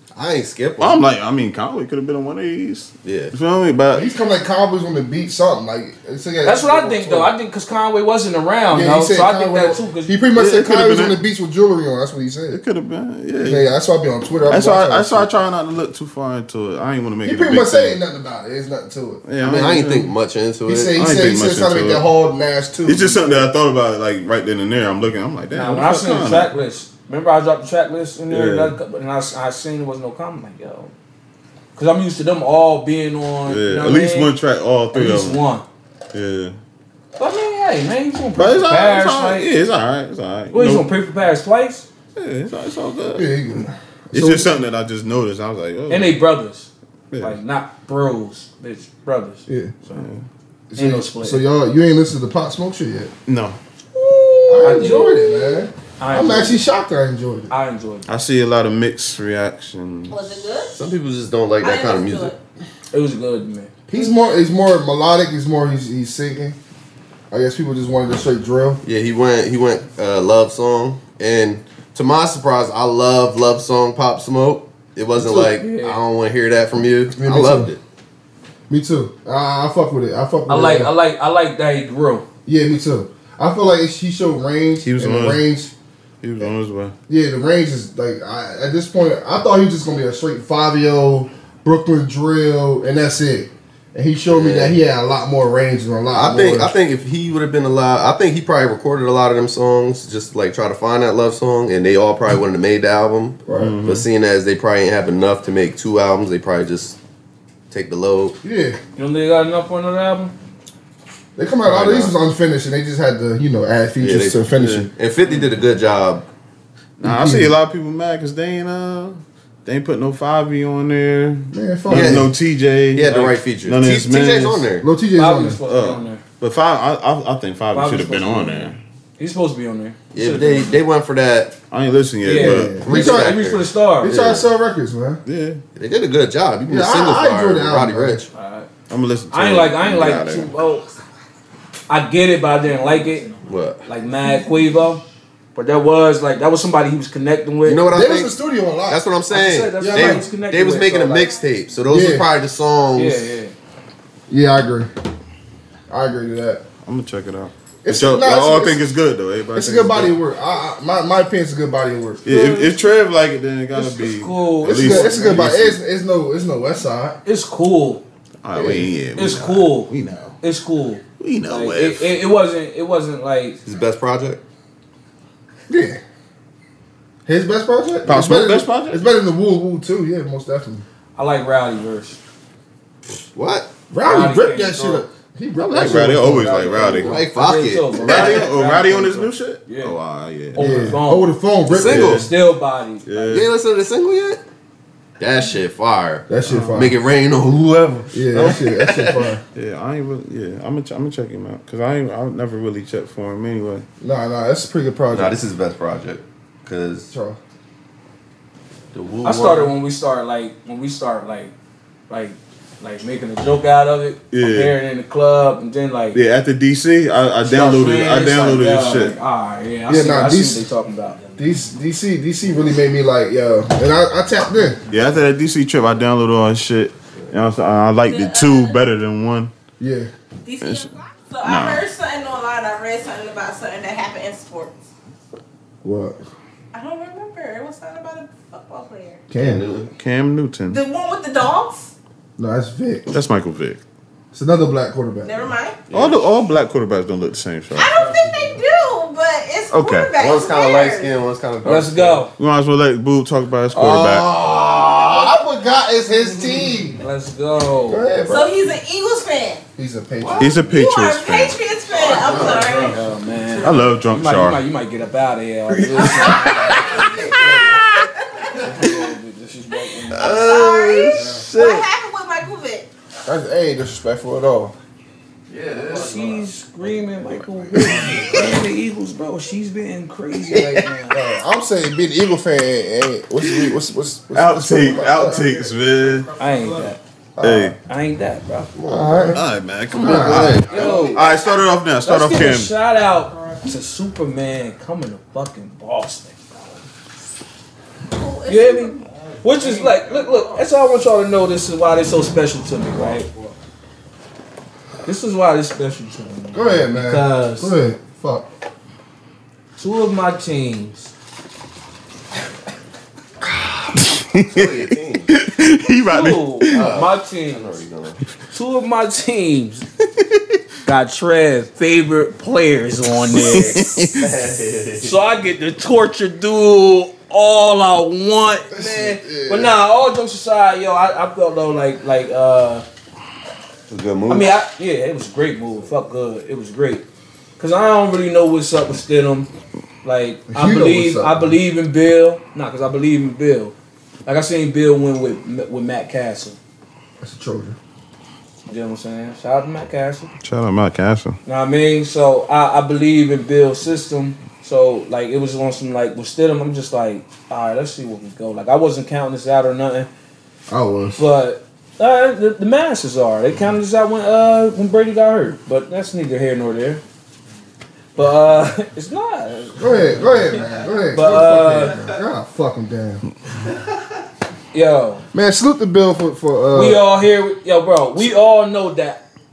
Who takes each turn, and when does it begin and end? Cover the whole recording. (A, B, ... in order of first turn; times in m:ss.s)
0:00.2-0:01.0 A
0:00.8-0:04.1 B
0:03.0-0:03.3 A
0:03.9-0:07.3 C
0:06.4-0:10.2 D
0:08.7-0:12.6 C
0:10.3-0:11.2 B
0:12.5-0:13.7 B
0:13.4-0:15.3 C
0:14.4-0:18.0 B
0:17.2-0:19.2 C
0:19.2-0:20.1 B
0:19.4-0:21.0 A
0:20.7-0:23.5 C
0:20.9-0:22.0 B
0:22.8-0:26.5 B
0:25.5-0:30.9 D
0:28.3-0:28.8 B
0:31.8-0:34.3 D
0:33.4-0:35.4 B
0:34.9-0:35.6 D
0:36.1-0:36.5 B
0:37.2-0:39.5 D
0:38.4-0:40.9 B
0:40.5-0:41.8 D
0:42.2-0:43.3 B
0:43.1-0:44.6 C
0:44.1-0:46.2 B
0:45.9-0:50.0 D
0:47.1-0:47.4 B
0:49.5-0:49.7 C
0:49.9-0:50.2 B
0:50.7-0:53.1 C
0:50.8-0:51.4 D
0:53.3-0:53.6 B
0:54.5-0:57.5 C
0:54.6-0:56.6 D
0:57.5-0:58.0 D
0:58.0-1:00.2 B
1:00.1-1:00.8 E
1:00.7-1:02.3 A
1:01.6-1:02.4 E
1:02.9-1:03.7 D
1:03.9-1:06.6 C
1:07.3-1:08.8 C
1:08.8-1:17.8 A
1:15.2-1:16.0 D
1:17.1-1:17.7 C
1:18.7-1:20.9 C
1:20.5-1:22.2 D
1:22.4-1:25.7 C
1:24.8-1:25.4 B
1:26.2-1:26.9 B
1:27.1-1:36.7 C
1:34.3-1:34.8 A
1:36.1-1:47.0 A
1:43.5-1:43.8 C
1:43.5-1:44.0 B
1:47.7-1:48.4 A
1:48.4-1:48.8 C
1:49.0-1:50.3 D
1:51.4-1:54.9 C
1:51.6-1:52.1 A
1:54.0-1:56.3 A
1:57.0-2:04.7 B
1:57.0-1:57.5 C
2:01.5-2:02.3 C
2:01.9-2:02.3 A
2:02.9-2:04.8 A
2:04.8-2:05.6 C
2:05.2-2:06.2 D
2:05.6-2:08.8 B
2:07.7-2:10.7 D
2:10.1-2:11.6 A
2:11.7-2:12.9 B
2:12.2-2:14.2 D
2:12.3-2:13.4 C
2:12.8-2:14.5 A
2:14.0-2:15.2 C
2:15.2-2:15.6 B
2:15.8-2:18.2 A
2:16.7-2:18.2 C
2:18.3-2:18.7 D
2:18.9-2:20.5 B
2:19.3-2:20.9 D
2:21.9-2:23.3 D
2:23.4-2:23.8 A
2:23.8-2:25.0 D
2:25.5-2:27.9 D
2:27.6-2:28.3 A
2:27.9-2:29.0 C
2:28.9-2:33.3 A
2:29.3-2:31.3 D
2:29.8-2:30.2 C
2:31.9-2:32.3 C
2:32.9-2:33.5 D
2:34.3-2:34.9 C
2:35.9-2:36.6 C
2:36.8-2:40.2 B
2:37.8-2:38.8 C
2:39.5-2:42.2 C
2:42.2-2:45.8 B
2:42.2-2:42.8 D
2:43.7-2:45.6 D
2:44.6-2:47.2 C
2:47.2-2:48.0 D
2:48.4-2:50.4 B
2:48.5-2:48.9 C
2:49.1-2:53.6 D
2:51.2-2:52.2 B
2:53.6-2:54.4 A
2:55.7-2:56.0 C
2:57.2-3:00.8 C
2:58.0-2:59.0 B
3:01.2-3:02.2 D
3:03.3-3:03.7 A
3:03.9-3:07.0 C
3:04.0-3:05.1 D
3:05.6-3:07.2 B
3:06.2-3:10.0 D
3:07.0-3:08.5 A
3:08.0-3:11.0 B
3:10.5-3:13.4 D
3:10.5-3:12.2 C
3:11.7-3:12.3 A
3:11.8-3:12.2 B
3:13.0-3:13.5 B
3:13.3-3:14.4 A
3:15.2-3:19.3 A
3:16.3-3:17.0 C
3:16.4-3:16.8 B
3:18.1-3:19.4 C
3:19.5-3:23.8 B
3:24.0-3:25.4 C
3:25.1-3:27.1 A
3:27.1-3:27.4 C
3:28.9-3:29.7 A
3:29.2-3:31.5 D
3:32.1-3:36.2 D
3:34.3-3:34.8 B
3:36.1-3:39.2 B
3:37.4-3:41.2 D
3:39.9-3:40.6 C
3:41.4-3:44.8 C
3:44.9-3:49.5 B
3:48.0-3:48.8 E
3:49.8-3:50.1 C
3:50.4-3:54.8 E
3:50.6-3:50.9 B
3:51.4-3:51.8 B
3:55.8-3:56.2 C
3:56.7-3:59.2 E
3:59.3-3:59.7 C
3:59.3-3:59.9 A
3:59.9-4:00.8 B
4:00.7-4:01.9 E
4:02.4-4:03.1 C
4:03.1-4:03.8 B
4:04.3-4:05.5 C
4:05.2-4:05.8 E
4:05.9-4:06.3 A
4:05.9-4:07.9 B
4:07.7-4:11.1 E
4:09.7-4:10.1 B
4:10.2-4:12.2 A
4:11.6-4:12.3 D
4:12.4-4:14.3 B
4:13.7-4:17.0 C
4:14.4-4:15.3 A
4:17.0-4:18.1 D
4:17.9-4:18.5 C
4:18.2-4:18.4 A
4:18.3-4:19.6 E
4:19.8-4:20.5 C
4:20.2-4:20.6 A
4:20.4-4:21.6 B
4:20.6-4:23.0 E
4:21.9-4:23.0 A
4:22.8-4:26.8 D
4:23.6-4:24.6 B
4:26.0-4:28.1 B
4:26.0-4:28.6 E
4:28.5-4:30.4 D
4:30.1-4:32.9 E
4:30.2-4:31.9 B
4:30.3-4:30.7 A
4:33.2-4:34.7 C
4:35.5-4:36.4 A
4:35.9-4:41.2 D
4:37.9-4:38.2 B
4:41.1-4:45.5 C
4:44.3-4:46.4 B
4:46.4-4:47.0 D
4:47.4-4:47.7 C
4:47.4-4:47.8 B
4:47.8-4:48.7 D
4:48.7-4:49.4 A
4:48.8-4:49.4 C
4:49.3-4:52.7 B
4:50.0-4:51.4 A
4:50.0-4:50.6 C
4:50.6-4:51.3 D
4:51.1-4:51.5 E
4:52.0-4:56.8 D
4:58.1-4:59.1 E
4:58.5-5:03.3 D
5:05.0-5:07.8 D
5:06.5-5:08.5 C
5:09.8-5:11.1 D
5:13.8-5:14.8 B
5:14.5-5:15.3 A
5:15.3-5:16.9 B
5:16.1-5:17.8 D
5:16.7-5:18.2 A
5:18.5-5:19.9 D
5:20.2-5:20.6 B
5:20.8-5:24.0 D
5:23.3-5:24.3 B
5:23.3-5:25.2 A
5:25.0-5:32.8 D
5:28.7-5:29.7 C
5:33.9-5:34.6 A
5:34.3-5:37.0 D
5:37.6-5:39.5 D
5:40.0-5:46.6 D
5:40.5-5:41.6 C
5:47.2-5:47.8 C
5:48.6-5:50.3 D
5:50.4-5:51.4 B
5:51.4-6:00.1 D
6:00.7-6:01.2 C
6:01.2-6:07.0 D
6:08.2-6:12.0 D
6:09.8-6:13.2 C
6:14.7-6:15.2 D
6:15.3-6:17.0 C
6:16.7-6:19.2 D